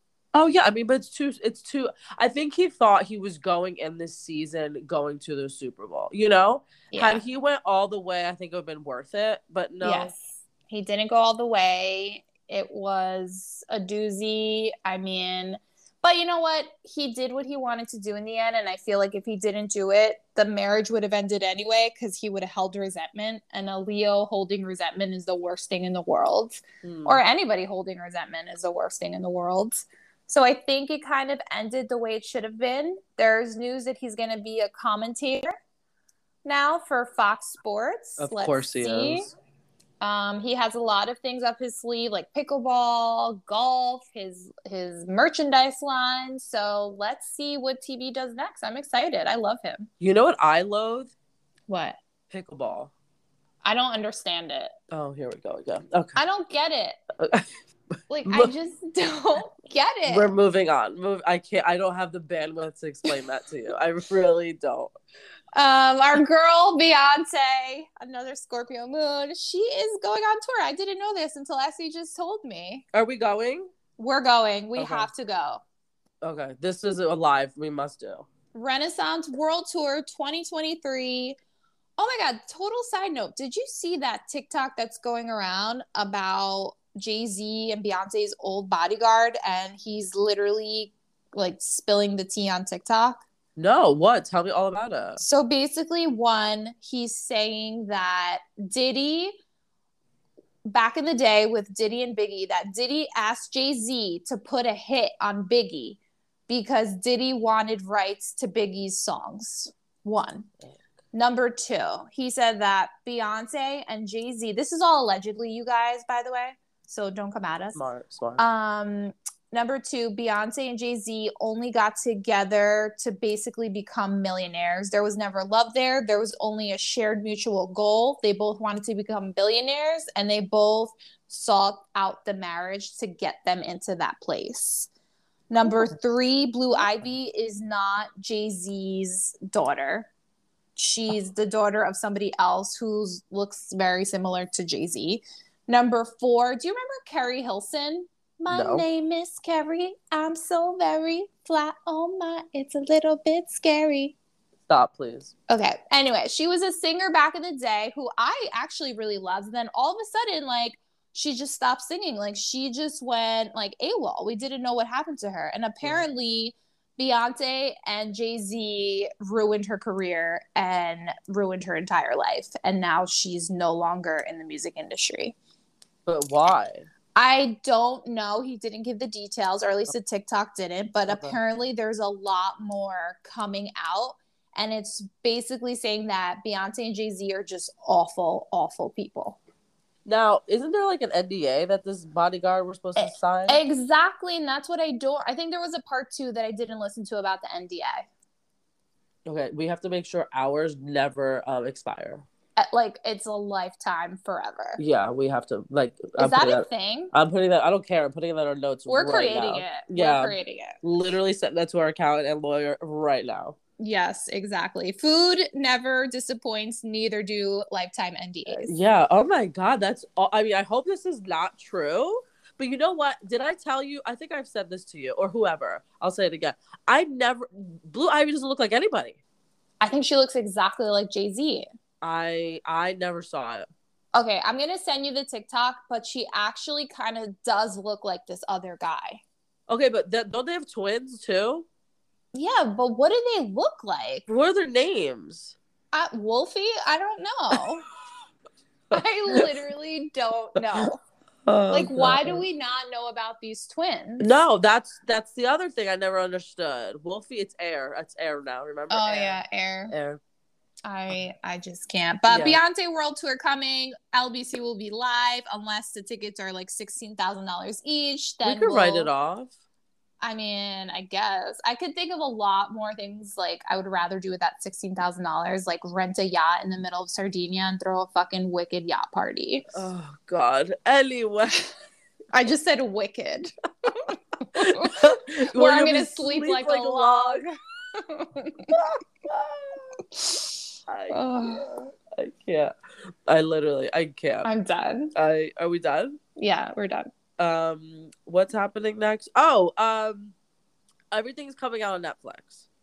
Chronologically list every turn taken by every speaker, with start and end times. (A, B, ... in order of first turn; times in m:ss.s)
0:00.3-0:10.1 A
0:06.9-0:07.2 B
0:09.8-0:35.6 B
0:26.8-0:27.2 A
0:36.4-0:39.3 B
0:38.2-0:39.3 A
0:40.0-0:49.9 B
0:50.0-0:51.1 A
0:51.7-0:52.0 B
0:52.3-0:52.9 A
0:53.6-0:54.7 B
0:54.9-0:56.2 A
0:56.2-0:57.0 B
0:57.2-0:57.5 A
0:58.1-1:00.3 B
0:58.3-0:58.5 A
1:00.1-1:04.9 A
1:05.6-1:12.8 B
1:12.9-1:13.7 A
1:14.0-1:15.6 B
1:14.8-1:15.1 A
1:16.2-1:18.3 A
1:18.5-1:21.4 B
1:22.0-1:33.2 B
1:33.6-1:35.2 A
1:35.2-1:39.4 B
1:40.6-1:50.5 B
1:51.1-1:57.8 B
1:57.7-1:58.4 A
1:58.4-2:14.9 B
2:15.5-2:20.1 B
2:20.8-2:34.2 B
2:28.5-2:28.8 A
2:34.7-2:35.3 A
2:35.5-2:55.4 B
2:56.1-2:56.9 A
2:57.2-3:09.4 B
3:01.1-3:01.4 A
3:10.0-3:13.6 A
3:13.0-3:18.1 B
3:19.2-3:22.2 A
3:22.6-3:24.8 B
3:24.8-3:33.6 A
3:26.2-3:27.1 B
3:28.9-3:30.8 B
3:33.8-3:38.8 B
3:38.5-3:49.2 A
3:49.8-3:51.7 B
3:52.0-3:53.7 A
3:54.1-3:59.2 B
3:59.7-4:01.7 A
4:02.3-4:04.2 B
4:04.3-4:05.6 A
4:05.9-4:07.9 B
4:08.9-4:11.0 B
4:11.5-4:12.4 A
4:11.7-4:14.3 B
4:14.2-4:20.2 A
4:18.9-4:19.9 B
4:20.9-4:29.1 B
4:22.3-4:22.6 A
4:28.4-4:29.5 A
4:30.2-4:39.8 B
4:39.7-4:41.7 A
4:42.3-4:48.7 B
4:44.5-4:47.4 A
4:48.7-4:50.0 A
4:50.2-4:50.5 B
4:50.9-4:52.7 A
4:51.1-4:51.7 B
4:53.3-4:54.5 A
4:54.4-4:55.1 B
4:55.2-4:56.2 A
4:56.4-4:57.1 B
4:57.4-5:00.3 A
5:01.1-5:02.6 A